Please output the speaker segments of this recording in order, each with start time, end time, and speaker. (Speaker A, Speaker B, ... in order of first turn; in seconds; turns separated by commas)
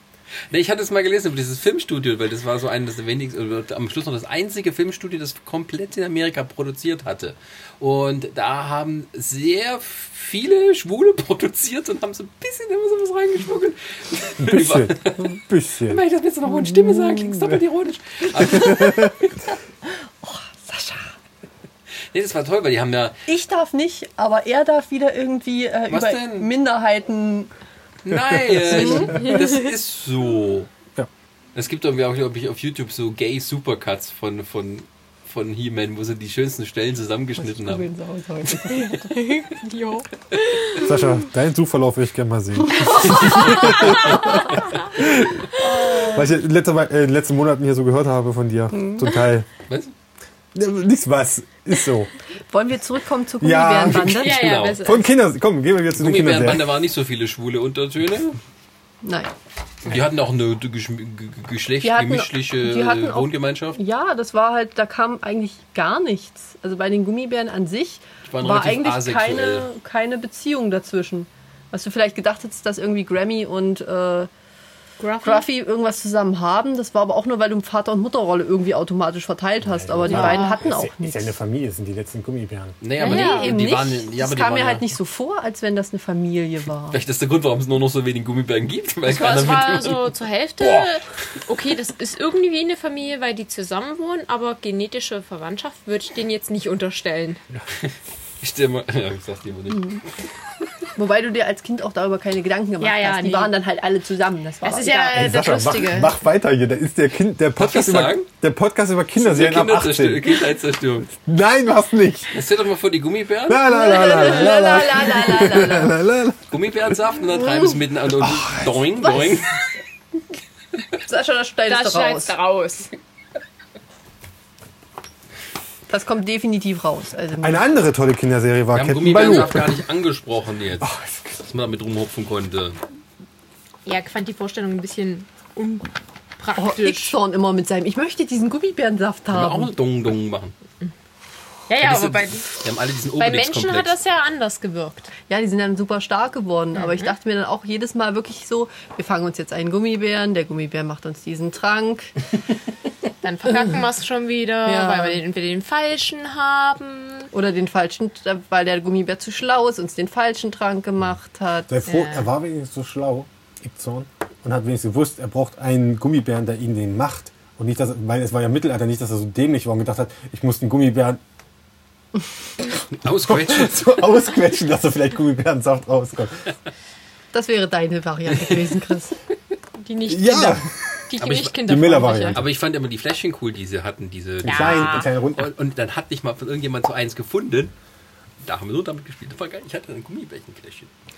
Speaker A: 0.5-19.4, Speaker B: 14.4-16.0, Speaker B: 18.5-19.1, Speaker C: 20.2-21.1, Speaker A: 22.1-23.2, Speaker C: 23.3-27.5, Speaker A: 25.9-26.5, Speaker A: 28.0-30.7, Speaker B: 28.1-29.3, Speaker C: 28.7-29.3, Speaker A: 31.5-37.9, Speaker C: 37.4-39.4, Speaker D: 38.7-41.1, Speaker B: 40.7-49.5, Speaker C: 42.9-44.5, Speaker D: 43.7-44.2, Speaker C: 45.6-46.2, Speaker C: 48.7-49.1, Speaker B: 50.5-52.1, Speaker C: 52.5-54.5, Speaker B: 53.4-54.2, Speaker A: 54.0-54.8, Speaker D: 54.1-55.0, Speaker B: 54.8-56.7, Speaker A: 55.9-58.4, Speaker C: 59.0-59.3, Speaker A: 59.8-63.8, Speaker C: 61.8-74.3, Speaker A: 68.2-69.7, Speaker D: 75.0-75.4, Speaker C: 75.2-81.4, Speaker B: 79.6-82.8, Speaker D: 80.1-80.6, Speaker A: 82.8-84.9, Speaker D: 83.0-83.5, Speaker C: 83.0-87.0, Speaker A: 86.9-91.0, Speaker D: 89.1-97.4, Speaker A: 97.8-100.3, Speaker C: 100.9-105.2, Speaker D: 102.8-103.5, Speaker D: 104.6-106.2, Speaker B: 105.1-110.4, Speaker A: 107.6-108.3, Speaker A: 109.2-111.1, Speaker B: 111.1-112.4, Speaker A: 112.3-113.7, Speaker B: 113.5-117.0, Speaker C: 113.6-116.0, Speaker A: 116.5-119.7, Speaker B: 118.1-118.8, Speaker C: 121.1-122.3, Speaker D: 121.7-122.9, Speaker C: 125.9-127.6, Speaker B: 127.4-129.8, Speaker A: 128.7-130.9, Speaker B: 130.8-131.4, Speaker A: 131.4-132.8, Speaker D: 133.8-137.2, Speaker C: 136.6-139.7, Speaker A: 139.3-140.5, Speaker D: 141.7-142.5, Speaker A: 141.8-143.9, Speaker D: 143.2-145.1, Speaker C: 145.3-152.1, Speaker D: 146.7-147.1, Speaker D: 153.2-157.3, Speaker C: 154.6-155.2, Speaker C: 157.3-161.8, Speaker B: 161.7-171.2, Speaker D: 161.9-162.3, Speaker A: 172.9-173.9, Speaker B: 173.1-176.5, Speaker C: 177.3-179.1, Speaker D: 179.8-182.4, Speaker B: 180.1-182.5, Speaker A: 181.2-181.5, Speaker A: 182.3-187.7, Speaker D: 184.4-185.1, Speaker B: 184.4-185.5, Speaker A: 188.4-190.9